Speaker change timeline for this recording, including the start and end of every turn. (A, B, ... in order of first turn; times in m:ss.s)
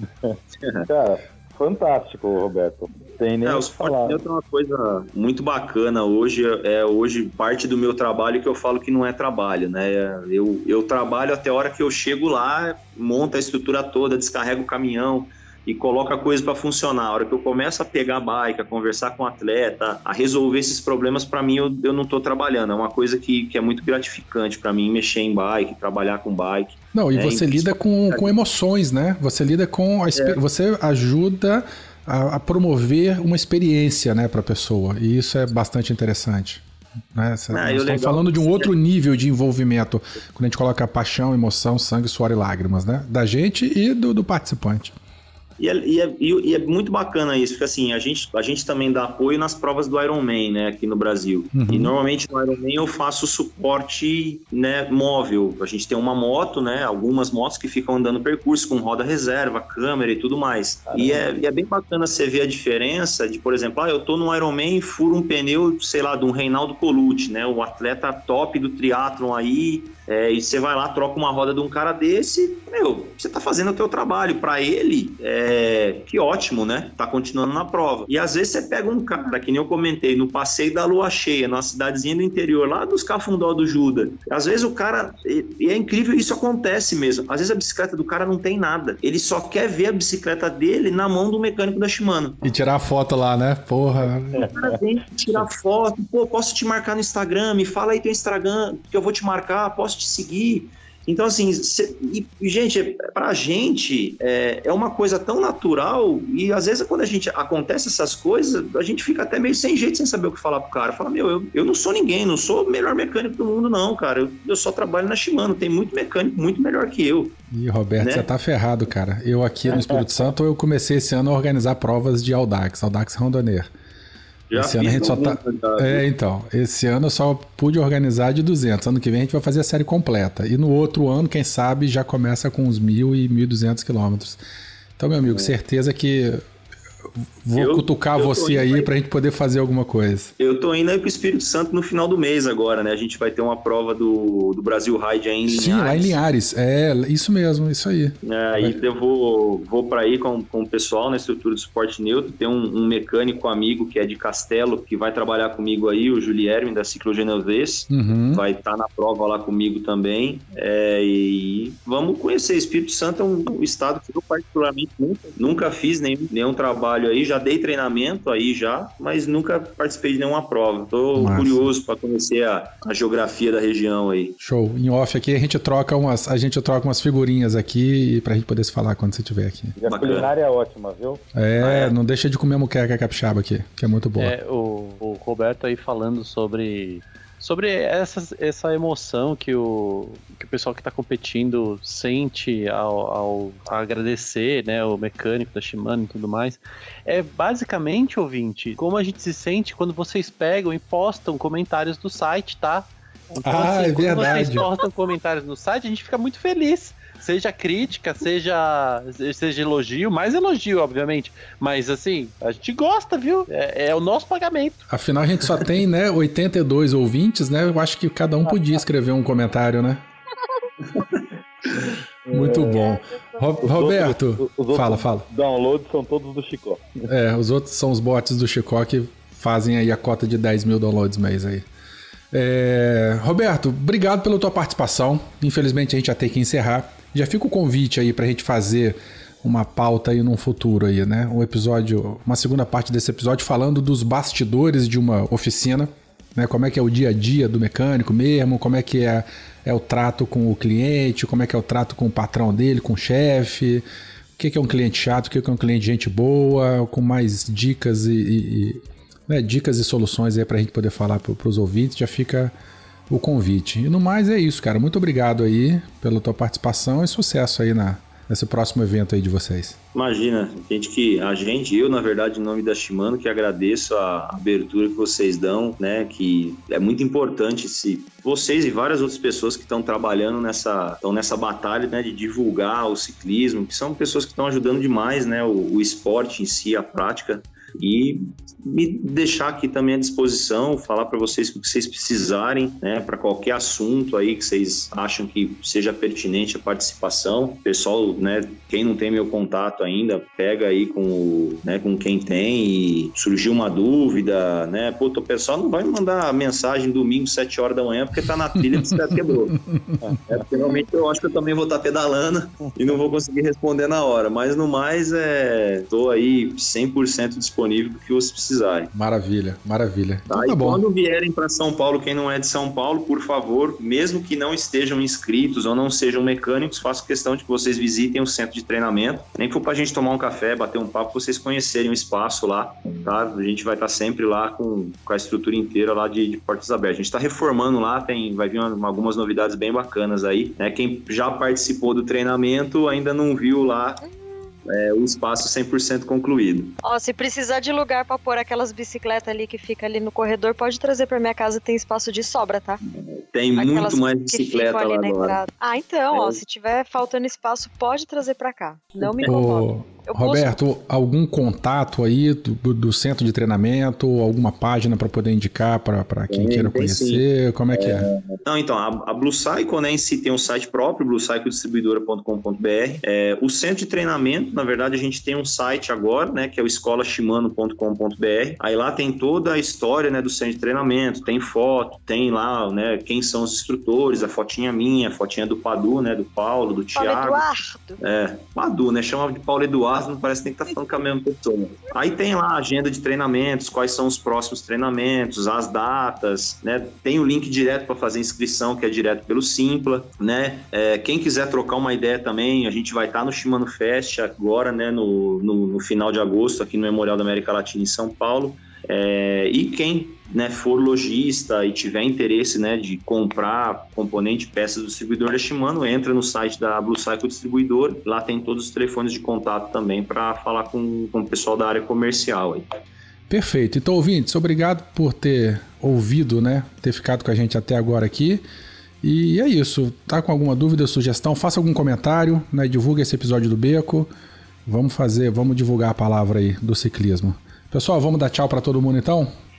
0:00.6-0:00.9 A
0:00.9-0:04.2 B
0:03.4-0:28.3 A
0:26.9-0:45.0 C
0:37.5-0:38.7 A
0:45.6-1:32.4 A
0:51.5-0:52.0 C
1:00.9-1:01.3 B
1:32.4-1:34.5 C
1:34.5-1:57.4 A
1:57.5-2:03.7 C
1:58.0-1:58.3 A
1:59.7-2:00.0 A
2:04.5-2:06.0 A
2:04.5-2:14.4 C
2:15.0-2:16.4 C
2:15.2-2:15.6 A
2:17.4-2:20.3 C
2:17.6-2:18.9 A
2:20.4-2:26.2 A
2:25.5-2:28.8 C
2:28.2-2:54.4 A
2:37.9-2:38.4 C
2:51.2-2:51.7 C
2:54.4-2:59.8 C
2:59.8-3:01.2 B
2:59.9-3:00.3 A
3:01.3-3:04.3 C
3:01.6-3:01.9 A
3:04.2-3:34.9 D
3:23.4-3:24.7 C
3:34.9-3:40.0 C
3:42.3-3:43.0 B
3:42.3-3:45.3 C
3:43.6-3:47.1 B
3:47.1-3:51.6 C
3:52.3-4:13.8 C
4:14.4-4:22.5 C
4:23.1-4:29.8 C
4:29.9-5:09.6 A
5:08.6-5:09.2 C
5:09.7-5:10.0 C
5:10.3-5:18.9 A
5:18.9-5:20.8 C
5:20.3-5:44.0 A
5:44.0-5:44.3 E
5:44.7-5:46.8 A
5:46.8-5:52.8 E
5:53.0-5:55.4 A
5:53.6-6:00.6 E
5:56.1-5:56.4 A
5:59.0-5:59.4 A
5:59.2-6:08.1 C
6:06.3-6:27.4 A
6:27.0-6:28.0 E
6:28.0-7:02.7 A
7:03.3-7:08.4 C
7:09.0-7:14.1 C
7:14.7-7:19.3 C